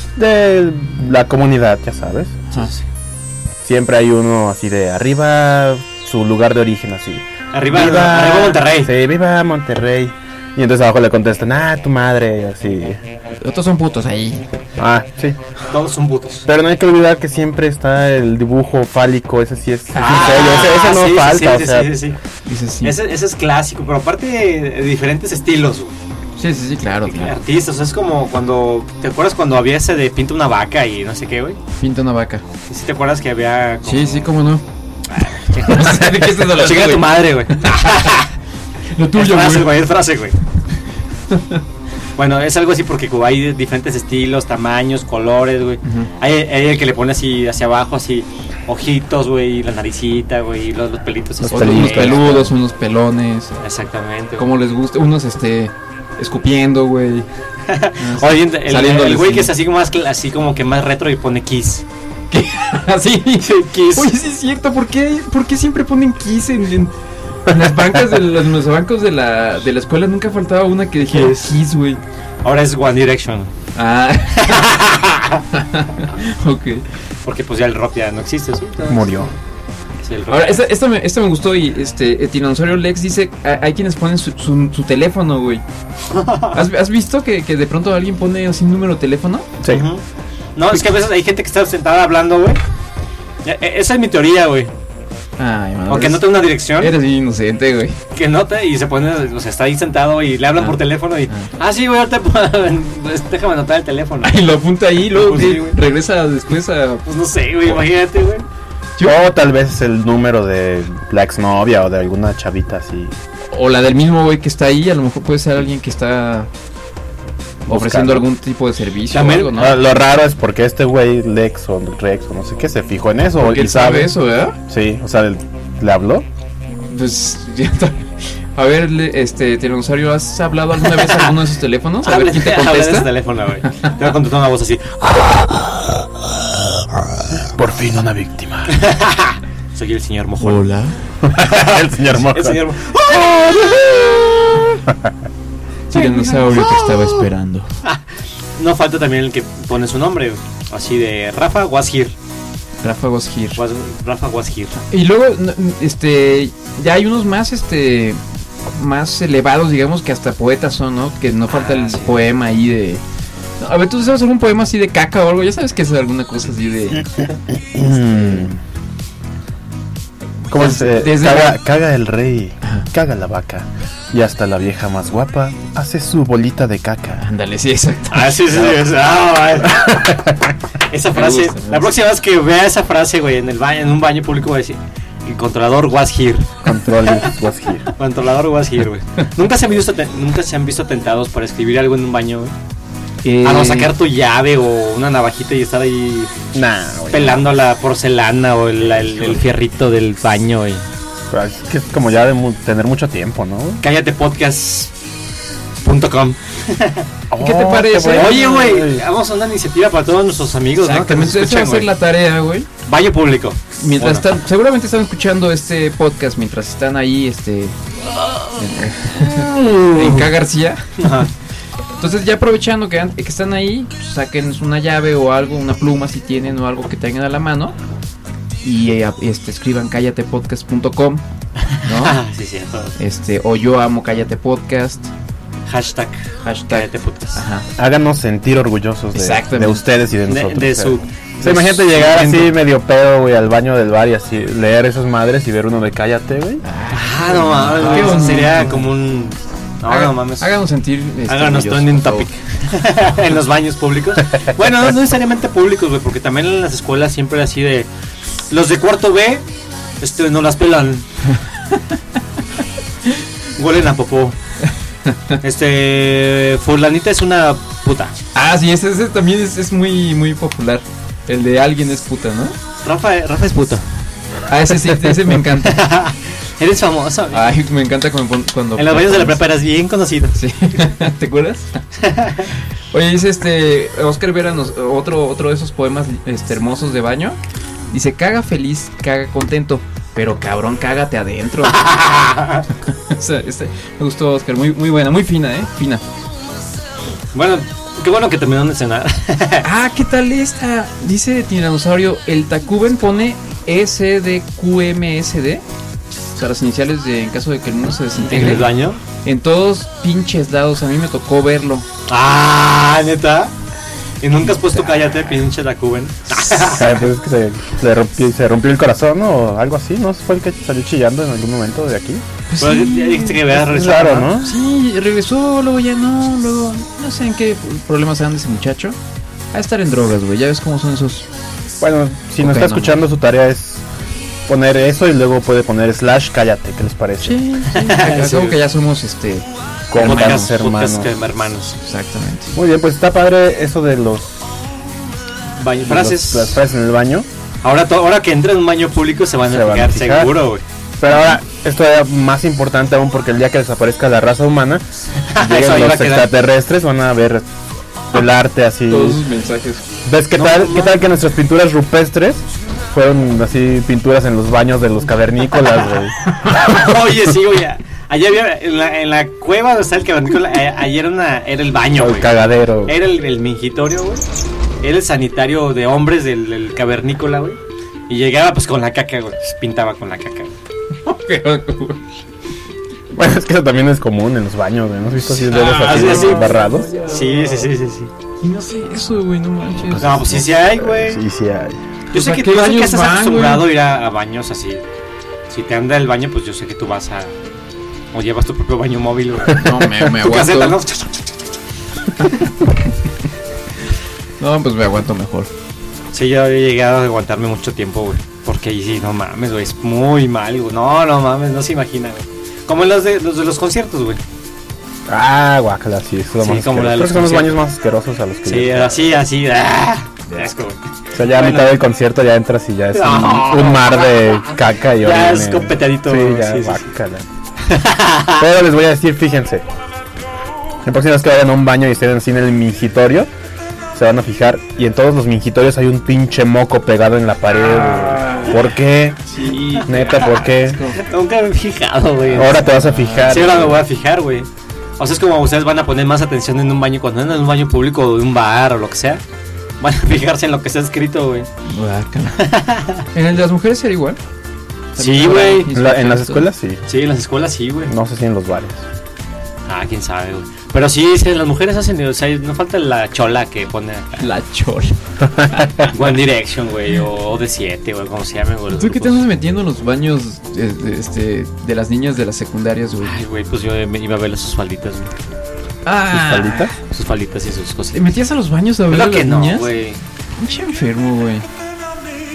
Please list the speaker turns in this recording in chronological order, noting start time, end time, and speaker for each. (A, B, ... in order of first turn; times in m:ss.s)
0:00.2-0:02.5 A
0:02.5-0:02.8 B
0:03.6-0:13.0 A
0:07.5-0:08.9 B
0:13.4-0:14.4 C
0:14.8-0:15.4 A
0:15.7-0:16.5 B
0:16.4-0:22.0 A
0:19.9-0:20.7 C
0:19.9-0:22.2 B
0:22.4-0:23.0 C
0:22.8-0:25.9 B
0:26.4-0:27.3 C
0:27.1-0:31.6 B
0:31.8-0:32.4 C
0:32.7-0:34.3 B
0:33.8-0:34.6 C
0:35.1-0:38.3 B
0:35.6-0:38.1 C
0:38.9-0:39.8 C
0:39.1-0:40.4 B
0:41.3-0:41.6 C
0:42.2-0:52.5 B
0:45.8-0:46.1 C
0:51.4-0:52.4 A
0:51.5-0:53.5 C
0:53.6-0:54.5 B
0:54.4-0:57.3 C
0:57.7-1:01.8 B
0:58.0-0:59.5 C
1:02.3-1:06.9 C
1:03.4-1:04.1 B
1:07.4-1:12.0 C
1:11.1-1:11.6 B
1:12.4-1:13.5 B
1:13.8-1:14.7 C
1:14.4-1:15.4 B
1:15.5-1:16.8 C
1:17.2-1:19.3 B
1:18.9-1:19.3 A
1:20.0-1:20.6 B
1:20.3-1:25.6 C
1:26.1-1:26.7 B
1:26.5-1:29.5 C
1:29.6-1:29.8 A
1:29.7-1:30.0 B
1:30.6-1:32.6 B
1:33.4-1:34.7 B
1:35.4-1:38.0 C
1:35.9-1:36.9 B
1:38.1-1:45.8 B
1:40.6-1:41.5 C
1:44.2-1:47.0 C
1:47.0-1:48.4 B
1:49.0-1:53.2 A
1:53.5-1:56.5 C
1:57.6-1:58.3 A
1:57.7-1:59.8 C
1:59.1-1:59.8 B
1:59.5-2:04.1 A
2:03.4-2:04.6 C
2:04.7-2:06.3 A
2:06.9-2:13.1 C
2:10.8-2:11.4 B
2:12.0-2:16.0 B
2:17.3-2:18.8 A
2:18.7-2:20.7 B
2:20.4-2:21.0 C
2:21.2-2:22.6 A
2:21.4-2:24.8 B
2:25.9-2:27.2 B
2:25.9-2:27.7 C
2:28.6-2:32.1 B
2:32.8-2:33.6 C
2:33.5-2:34.8 B
2:34.8-2:43.0 C
2:41.5-2:42.2 B
2:43.6-2:47.1 C
2:47.7-2:48.6 A
2:48.1-2:48.5 C
2:50.5-2:51.6 C
2:50.5-2:57.2 A
2:57.2-2:58.8 C
2:58.1-3:00.3 B
2:59.7-3:00.3 A
3:00.9-3:06.5 B
3:01.1-3:01.9 C
3:06.6-3:07.9 A
3:08.0-3:12.5 B
3:13.2-3:14.0 C
3:13.4-3:16.4 B
3:16.5-3:17.5 A
3:17.1-3:20.8 B
3:21.3-3:23.8 A
3:23.8-3:24.9 B
3:25.8-3:27.1 B
3:27.3-3:29.0 A
3:27.4-3:28.8 C
3:28.1-3:31.9 B
3:30.8-3:32.7 C
3:32.8-3:34.3 B
3:33.8-3:40.8 C
3:39.4-3:40.3 B
3:41.0-3:41.3 B
3:42.0-3:47.8 C
3:48.6-3:51.2 C
3:51.8-3:52.2 C
3:51.9-3:52.9 B
3:53.0-3:55.1 C
3:55.7-3:57.4 B
3:56.4-3:57.7 C
3:57.8-4:06.6 A
3:59.1-3:59.8 C
4:00.3-4:02.6 B
4:06.6-4:08.9 C
4:06.9-4:10.5 B
4:09.9-4:12.3 C
4:11.3-4:17.9 B
4:18.5-4:19.4 B
4:20.0-4:21.0 B
4:23.6-4:24.4 B
4:25.4-4:28.1 B
4:28.4-4:32.6 C
4:32.8-4:33.8 B
4:34.5-4:35.8 C
4:34.9-4:37.6 B
4:37.3-4:39.4 C
4:38.8-4:40.4 B
4:40.4-4:41.7 C
4:42.0-4:42.5 B
4:42.9-4:47.4 C
4:47.9-4:52.0 C
4:51.7-4:52.7 B
4:52.9-4:56.0 C
4:57.3-4:59.6 B
4:59.6-5:05.6 C
5:06.4-5:08.7 C
5:08.2-5:09.0 B
5:09.2-5:11.9 C
5:12.1-5:13.5 B
5:14.2-5:17.0 B
5:16.7-5:22.2 A
5:22.5-5:23.9 C
5:22.6-5:24.3 B
5:23.7-5:24.5 A
5:24.4-5:29.0 C
5:29.5-5:31.3 C
5:31.8-5:33.8 A
5:32.4-5:33.0 C
5:34.5-5:37.4 A
5:37.2-5:40.5 C
5:37.7-5:38.6 B
5:39.9-5:41.1 A
5:40.0-5:41.8 B
5:41.8-5:42.5 C
5:42.5-5:44.3 A
5:45.6-5:46.6 B
5:45.8-5:47.3 A
5:47.6-5:50.6 B
5:49.4-5:50.4 A
5:51.0-5:54.8 A
5:55.3-5:56.3 B
5:55.4-5:57.4 A
5:58.1-5:59.2 A
5:58.9-5:59.8 C
6:00.0-6:06.3 A
6:00.3-6:01.1 B
6:06.0-6:14.2 B
6:11.9-6:13.0 A
6:14.8-6:17.6 B
6:18.1-6:20.5 B
6:21.0-6:22.0 C
6:23.1-6:26.9 A
6:25.2-6:27.7 C
6:25.8-6:26.5 B
6:27.0-6:28.1 B
6:28.4-6:30.4 C
6:29.9-6:30.1 A
6:29.9-6:31.2 B
6:30.8-6:31.8 A
6:32.1-6:33.7 C
6:32.1-6:34.8 B
6:35.5-6:37.4 B
6:38.1-6:41.4 B
6:39.6-6:40.8 C
6:44.4-6:45.5 C
6:46.1-6:54.2 B
6:55.1-6:59.1 A
6:56.4-6:57.6 B
6:58.4-7:01.8 B
7:01.1-7:07.2 A
7:02.9-7:06.9 B
7:07.7-7:08.4 B
7:08.4-7:09.6 A
7:10.8-7:13.3 A
7:13.9-7:19.2 A
7:17.6-7:18.6 C
7:19.3-7:21.0 C
7:19.7-7:20.3 B
7:19.9-7:20.8 A
7:21.0-7:22.7 B
7:22.3-7:23.8 A
7:22.4-7:23.8 C
7:23.2-7:24.5 B
7:25.0-7:29.2 B
7:29.8-7:31.5 B
7:31.6-7:34.2 C
7:32.4-7:33.0 B
7:35.0-7:35.7 B
7:35.0-7:36.5 C
7:35.7-7:36.8 A
7:36.9-7:37.9 B
7:37.9-7:38.8 A
7:39.7-7:44.2 B
7:44.2-7:45.9 C
7:45.9-7:49.2 B
7:48.7-7:53.2 C
7:53.0-7:55.1 B
7:55.8-7:56.8 C
7:56.1-7:56.7 A
7:56.8-7:58.2 B
7:57.9-7:59.7 C
7:58.9-8:00.0 B
8:00.4-8:01.4 C